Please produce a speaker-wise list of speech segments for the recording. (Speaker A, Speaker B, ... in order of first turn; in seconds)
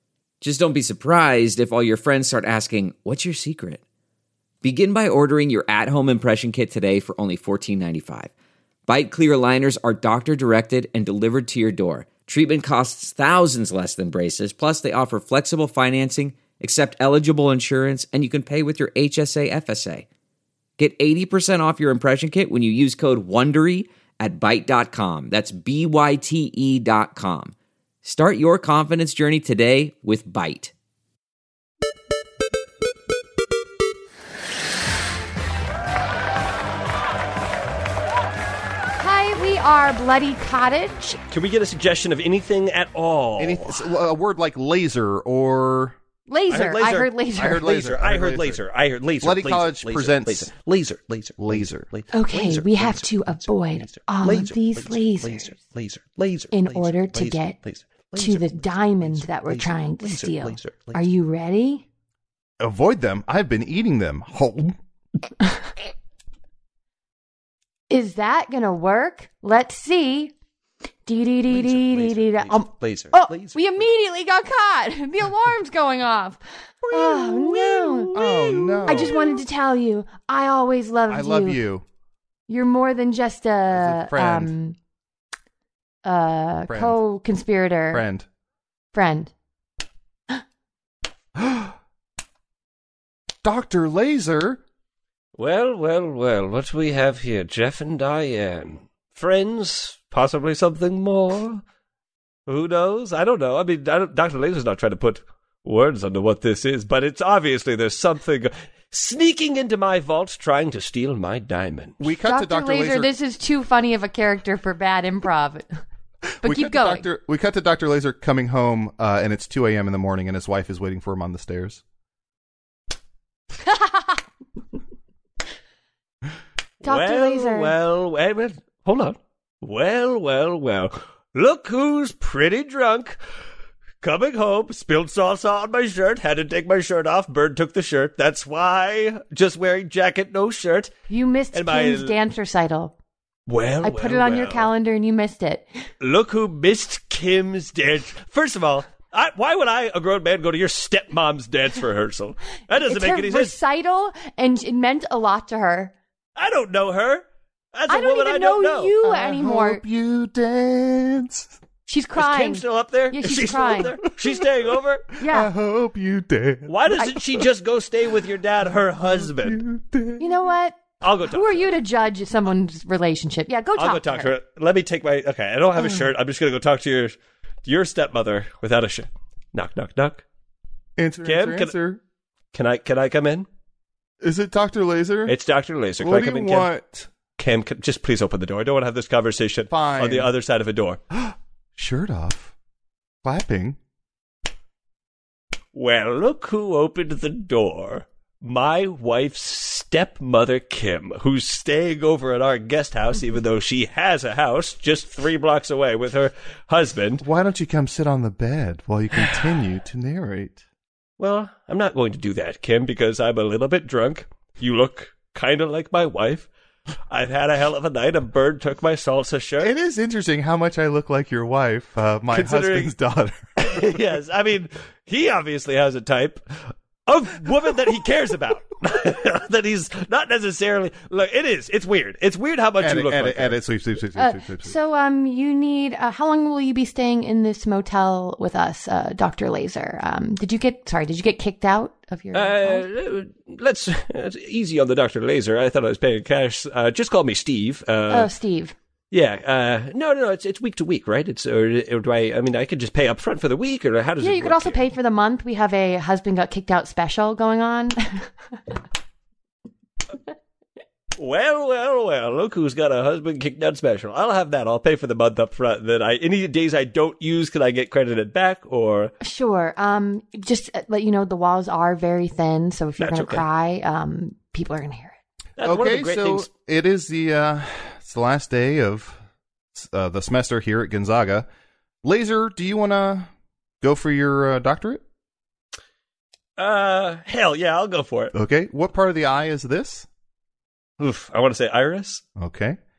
Speaker A: 0.4-3.8, 4.6-8.3, 8.9-20.1, 20.8-30.7
Speaker B: 39.0-41.2, 46.3-47.8, 52.1-55.6, 56.5-57.6, 58.2-61.8, 67.9-70.3, 71.1-81.6, 82.5-84.8, 86.0-88.0, 88.9-89.3, 112.2-115.8, 116.4-117.1, 123.6-124.2, 126.8-127.8, 141.1-142.9, 143.8-145.7, 152.8-155.9, 157.9-159.8, 161.9-164.0, 165.2-165.5, 170.2-174.3, 234.2-242.9, 248.1-248.7, 254.2-258.7, 269.2-275.2
Speaker C: 41.3-43.9, 46.5-61.0, 71.5-73.9, 77.9-79.2, 95.4-101.6, 102.5-112.0, 126.8-133.2, 134.0-140.9, 141.5-142.2, 143.5-144.7, 146.0-153.6, 156.4-158.9, 162.2-165.1, 166.7-169.6, 171.0-171.7, 173.8-180.2, 181.2-181.8, 182.5-183.5, 185.3-186.7, 187.4-191.0, 195.7-207.2, 211.2-216.5, 217.1-219.7, 222.3-222.9, 223.6-233.6, 242.3-248.3, 249.1-254.8, 261.2-269.1, 273.0-273.4, 275.6-276.5, 286.6-288.3, 291.0-292.2
Speaker D: 43.4-46.0, 47.4-48.6, 49.2-50.5, 51.4-51.9, 62.6-64.8, 76.9-79.2, 81.1-81.8, 83.7-84.5, 86.7-87.0, 87.9-88.3, 91.4-91.7, 93.4-94.6, 112.0-113.1, 116.4-121.8, 159.0-161.5, 164.1-164.4, 165.2-167.5, 169.0-170.3, 181.0-182.0, 184.2-185.3, 186.0-187.1, 189.7-190.3, 191.1-192.5, 193.2-193.8, 207.2-210.6, 219.6-224.0, 232.8-234.7, 275.6-279.2, 279.7-281.5, 282.0-283.3, 283.8-285.0, 288.3-290.1, 292.4-292.8